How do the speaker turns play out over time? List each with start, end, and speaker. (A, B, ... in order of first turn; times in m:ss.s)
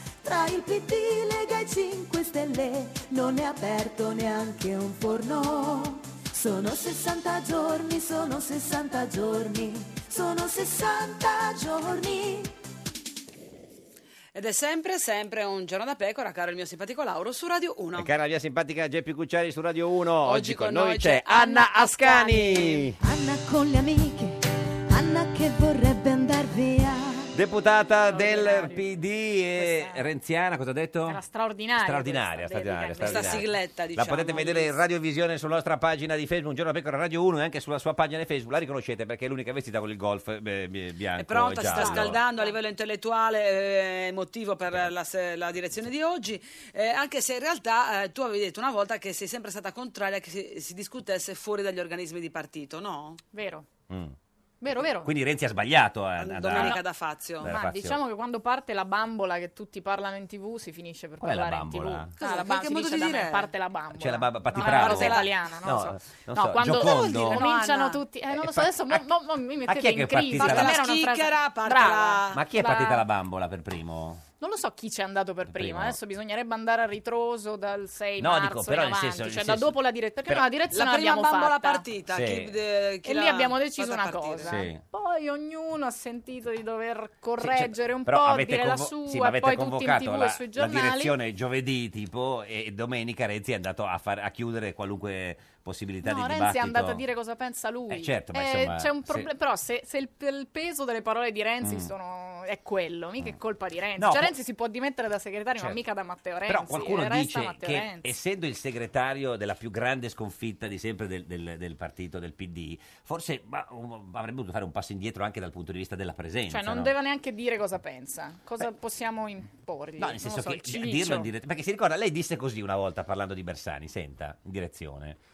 0:00.2-0:12.5 A
0:14.3-0:18.1 B
0:17.9-0:23.0 C
0:20.2-0:22.9 B
0:23.0-0:27.3 A
0:27.3-0:31.2 C
0:28.0-0:28.9 D
0:29.5-0:30.0 D
0:31.0-0:33.5 D
0:31.8-0:42.2 C
0:33.0-0:34.8 B
0:41.2-0:53.2 B
0:41.7-0:42.6 D
0:53.3-0:53.7 D
0:53.9-0:54.2 C
0:54.6-0:55.1 D
0:55.0-0:56.8 C
0:56.2-0:57.5 B
0:57.4-0:58.0 C
0:57.4-1:13.0 D
1:01.2-1:02.1 C
1:02.2-1:03.5 B
1:03.9-1:07.4 C
1:04.5-1:05.3 B
1:06.6-1:08.0 B
1:08.3-1:09.0 C
1:09.6-1:10.8 C
1:10.4-1:12.4 B
1:12.3-1:14.2 C
1:14.4-1:21.8 D
1:15.5-1:16.0 C
1:18.2-1:20.5 C
1:20.7-1:24.6 B
1:22.1-1:22.5 C
1:23.0-1:31.2 D
1:24.4-1:24.8 C
1:27.4-1:37.0 C
1:36.0-1:48.1 D
1:37.9-1:39.3 C
1:41.6-1:41.9 C
1:44.0-1:44.3 C
1:46.4-1:56.9 C
1:56.5-2:01.3 D
2:00.0-2:05.2 C